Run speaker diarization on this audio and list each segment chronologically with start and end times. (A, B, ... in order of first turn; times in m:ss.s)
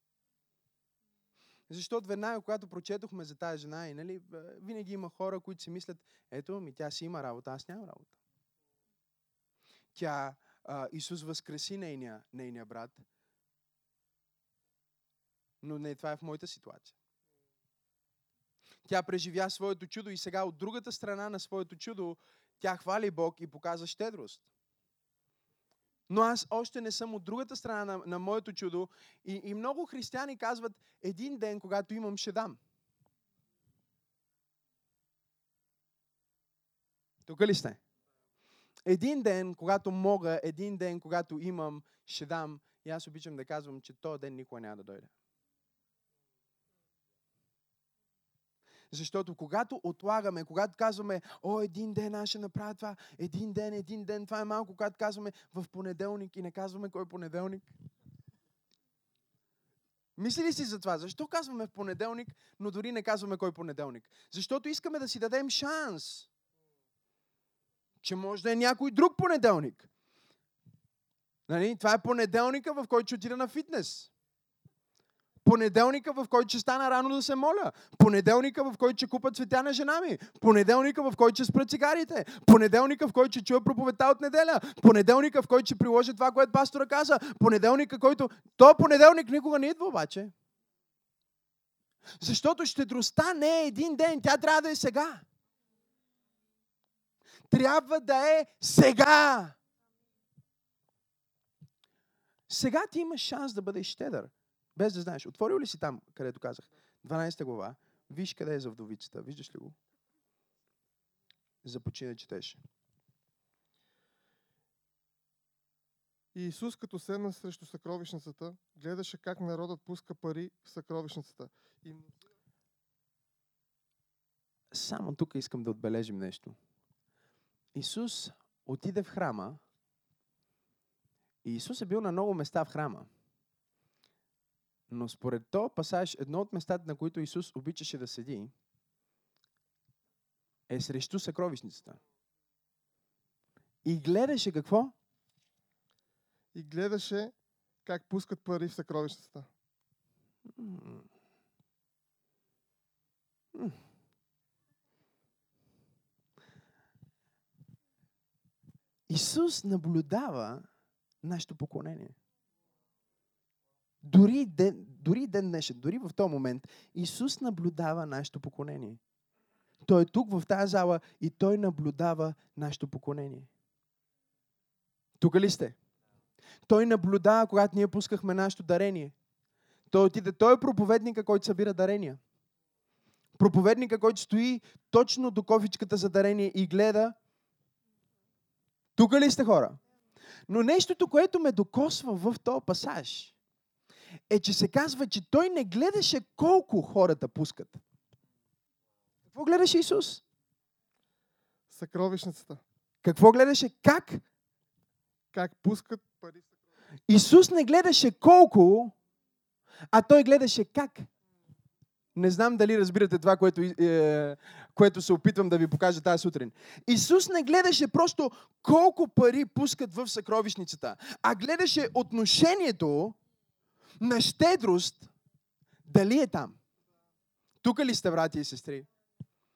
0:01.7-0:08.1 A
0:09.9-0:13.0 A
0:15.6-0:17.0 A
0:18.9-0:24.5 A
0:26.1-0:32.6 A
0:37.3-0:37.8 A
0:38.9-0:45.1 A
0:48.9-0:57.7 A
1:00.2-1:06.3 A
1:08.0-1:09.9 A
1:11.5-1:14.1 A
1:15.4-1:30.3 A
1:32.2-1:35.2 A
1:37.5-1:39.6 A
1:42.5-1:49.8 A
1:51.6-1:52.6 A
1:56.3-2:02.1 B
2:04.7-2:06.6 A
2:07.8-2:09.6 A
2:11.4-2:13.1 A
2:14.9-2:18.5 A
2:20.7-2:22.0 A
2:23.8-2:25.0 A
2:26.5-2:27.3 B
2:27.8-2:29.5 B
2:30.6-2:31.1 A
2:33.5-2:33.8 A
2:39.1-2:40.7 A
2:41.2-2:42.2 A
2:44.0-2:49.0 A
2:49.8-2:53.5 A
2:55.2-2:55.8 A
2:56.7-2:59.1 A
2:59.9-3:02.2 A
3:03.4-3:07.2 A
3:09.0-3:09.8 A
3:10.5-3:13.4 A
3:14.3-3:17.8 A
3:19.3-3:20.2 A
3:21.7-3:22.6 B
3:23.0-3:24.2 A
3:25.3-3:26.5 B
3:27.1-3:28.9 A
3:29.9-3:31.1 A
3:32.1-3:43.2 A
3:44.0-3:45.1 A
3:45.9-3:46.6 A
3:47.6-3:48.9 A